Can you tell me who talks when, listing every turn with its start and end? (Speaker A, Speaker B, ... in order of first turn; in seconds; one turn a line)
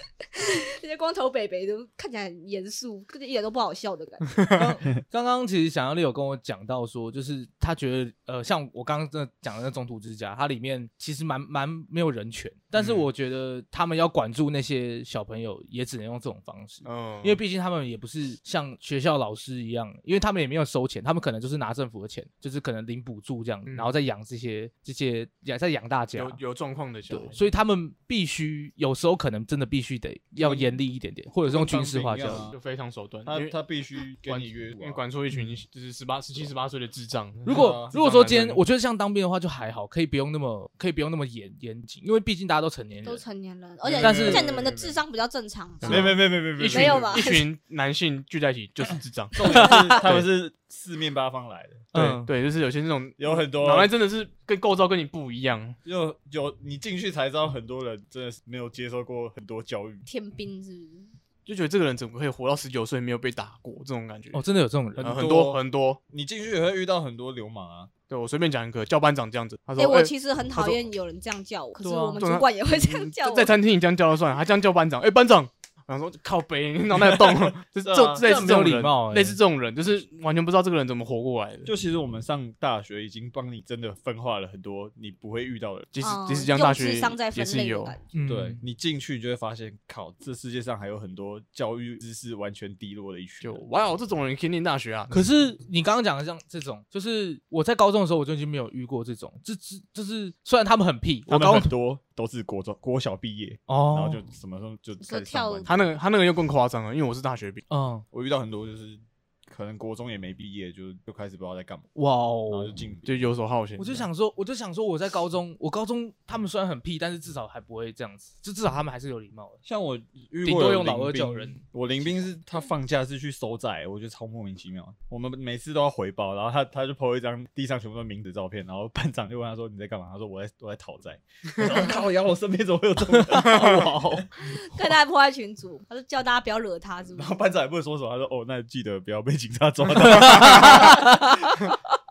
Speaker A: 0.3-4.6
Speaker B: 4.5-26.4
Speaker C: 12.7-13.1
Speaker C: 16.8-17.4
Speaker C: 23.6-23.9
Speaker C: 26.1-27.4
Speaker B: 27.1-32.5
Speaker D: 30.4-30.8
Speaker D: 31.4-32.5
Speaker C: 32.5-33.5
Speaker D: 33.2-35.0
Speaker C: 34.2-38.6
Speaker B: 37.4-43.2
Speaker D: 37.5-37.9
Speaker A: 43.0-47.5
Speaker D: 43.8-45.0
Speaker C: 43.9-44.5
Speaker B: 44.0-44.4
Speaker C: 45.8-50.2
Speaker D: 45.8-47.2
Speaker D: 49.4-52.1
Speaker B: 49.4-50.2
Speaker B: 51.9-52.3
Speaker C: 52.0-55.8
Speaker D: 53.2-53.9
Speaker D: 55.8-60.0
Speaker A: 60.0-61.1
Speaker C: 61.5-64.4
Speaker B: 64.3-65.1
Speaker D: 65.0-67.9
Speaker C: 65.0-66.0
Speaker C: 68.1-70.8
Speaker A: 69.8-73.5
Speaker C: 71.8-81.7
Speaker D: 77.8-78.3
Speaker B: 78.2-79.4
Speaker D: 81.6-85.9
Speaker C: 85.9-88.0
Speaker A: 86.0-88.0
Speaker B: 88.1-88.6
Speaker D: 88.2-93.6
Speaker C: 93.4-95.2
Speaker B: 95.1-101.7
Speaker D: 101.3-105.9
Speaker B: 103.7-104.2
Speaker A: 105.0-105.8
Speaker C: 105.7-107.6
Speaker B: 107.7-108.0
Speaker D: 108.1-111.9
Speaker B: 111.9-112.8
Speaker D: 112.5-113.3
Speaker C: 113.0-114.1
Speaker B: 113.8-119.6
Speaker D: 119.6-134.9
Speaker B: 120.4-121.6
Speaker B: 133.6-134.2
Speaker A: 134.4-137.3
Speaker D: 137.1-141.4
Speaker B: 140.2-141.3
Speaker C: 140.3-140.8